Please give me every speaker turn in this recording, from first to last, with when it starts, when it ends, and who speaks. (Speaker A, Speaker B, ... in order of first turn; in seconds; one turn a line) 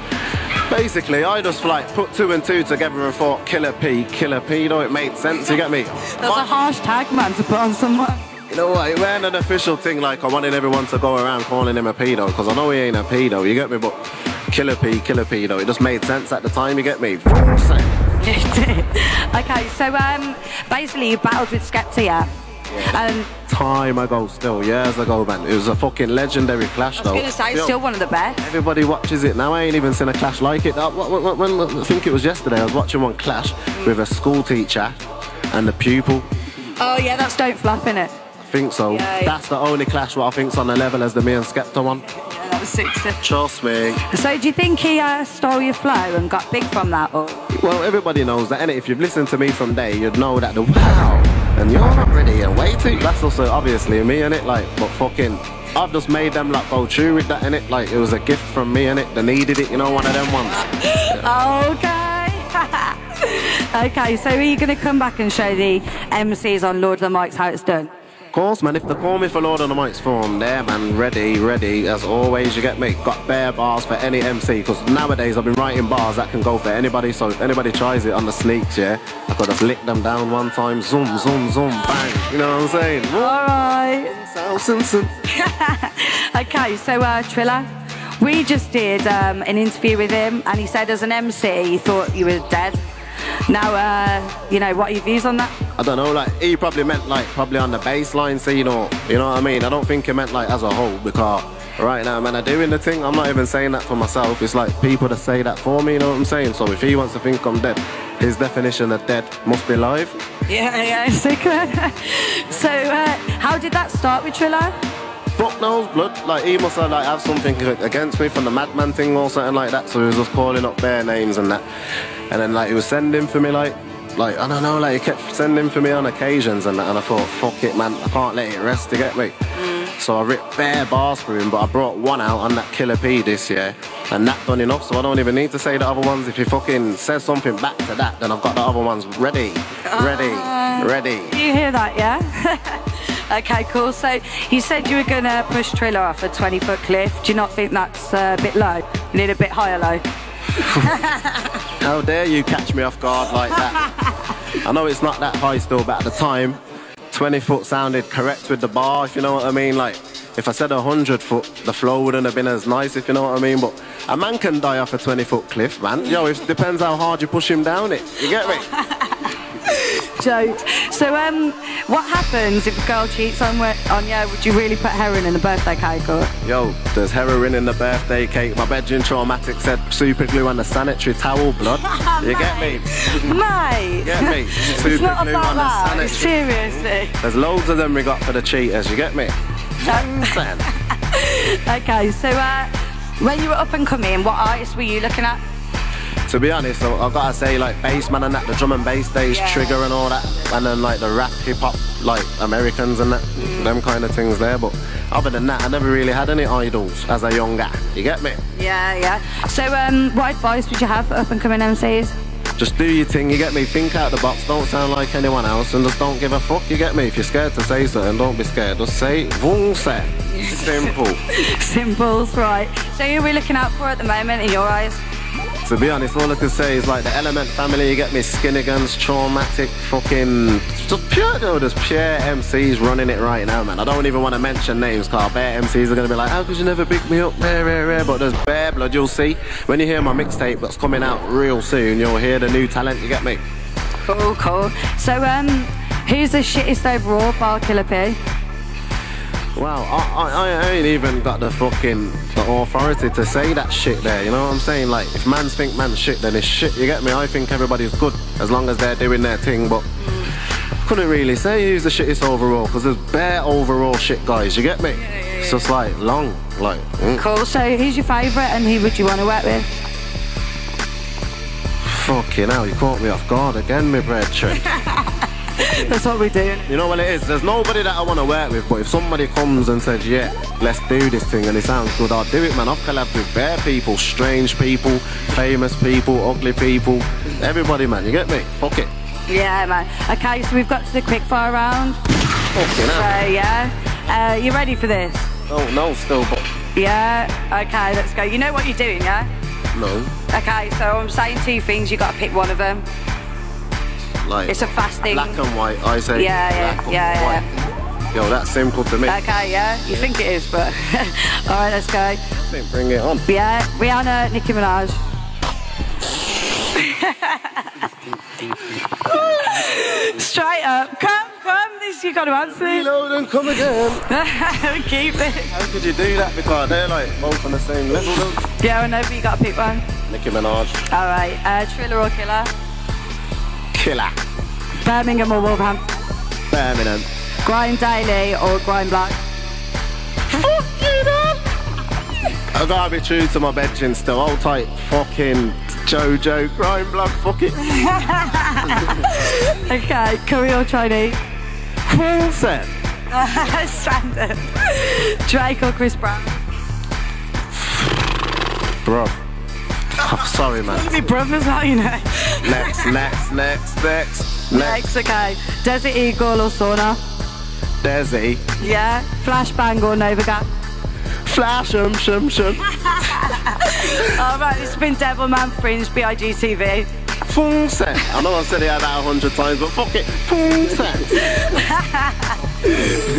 Speaker A: 0.7-6.5
Speaker B: 6.1-8.2
Speaker A: 8.5-13.9
Speaker A: 14.5-18.0
Speaker B: 18.2-22.3
Speaker A: 22.7-27.8
Speaker B: 22.8-23.3
Speaker B: 27.0-28.4
Speaker A: 28.4-34.9
Speaker A: 35.5-36.2
Speaker B: 36.8-38.1
Speaker A: 38.4-42.0
Speaker B: 38.9-39.3
Speaker B: 42.1-43.2
Speaker A: 43.2-44.0
Speaker B: 44.0-47.4
Speaker A: 47.5-61.2
Speaker B: 60.8-67.9
Speaker A: 68.3-83.4
Speaker B: 83.1-84.1
Speaker A: 84.0-85.1
Speaker B: 85.3-87.7
Speaker B: 88.2-92.8
Speaker B: 93.5-95.5
Speaker A: 95.8-110.2
Speaker B: 110.5-114.7
Speaker A: 115.4-121.6
Speaker A: 122.3-129.3
Speaker B: 129.6-129.9
Speaker A: 129.9-141.3
Speaker B: 139.8-150.1
Speaker B: 150.6-151.5
Speaker A: 151.8-153.8
Speaker A: 154.5-156.6
Speaker A: 157.1-168.7
Speaker B: 168.4-176.3
Speaker A: 176.4-183.4
Speaker B: 181.9-187.2
Speaker A: 184.0-186.7
Speaker A: 187.2-190.6
Speaker B: 189.8-195.4
Speaker A: 196.3-208.4
Speaker B: 199.3-199.8
Speaker B: 203.4-203.7
Speaker B: 208.5-212.1
Speaker A: 212.6-221.2
Speaker B: 220.3-225.0
Speaker A: 225.6-243.4
Speaker B: 244.1-248.2
Speaker A: 249.6-259.8
Speaker A: 260.8-267.2
Speaker B: 265.0-265.7
Speaker B: 267.2-269.7
Speaker A: 271.8-274.7
Speaker B: 274.7-276.7
Speaker A: 276.7-288.9
Speaker B: 289.3-292.0
Speaker A: 292.5-293.1
Speaker B: 292.8-295.3
Speaker A: 295.5-296.4
Speaker B: 296.7-299.3
Speaker A: 299.7-300.1
Speaker B: 300.3-302.8
Speaker A: 304.2-307.4
Speaker B: 304.5-305.4
Speaker B: 306.1-307.4
Speaker A: 308.1-309.2
Speaker B: 309.1-312.2
Speaker A: 312.5-313.2
Speaker B: 313.2-315.0
Speaker B: 316.7-317.9
Speaker B: 319.1-322.9
Speaker A: 322.5-324.0
Speaker B: 324.1-325.5
Speaker A: 325.5-328.4
Speaker B: 328.6-329.8
Speaker A: 330.1-330.8
Speaker B: 330.9-332.5
Speaker A: 333.7-334.1
Speaker B: 334.8-335.8
Speaker A: 336.5-337.1
Speaker B: 337.4-339.2
Speaker A: 340.3-341.4
Speaker A: 342.5-347.6
Speaker B: 347.6-351.2
Speaker A: 351.9-352.7
Speaker B: 353.1-356.4
Speaker A: 357.6-358.0
Speaker A: 358.8-359.2
Speaker A: 360.0-361.0
Speaker B: 360.6-363.0
Speaker A: 362.4-364.8
Speaker B: 364.5-367.0
Speaker A: 367.8-368.4
Speaker B: 368.6-370.5
Speaker A: 371.2-372.7
Speaker B: 372.8-376.9
Speaker A: 377.3-381.3
Speaker B: 381.2-382.3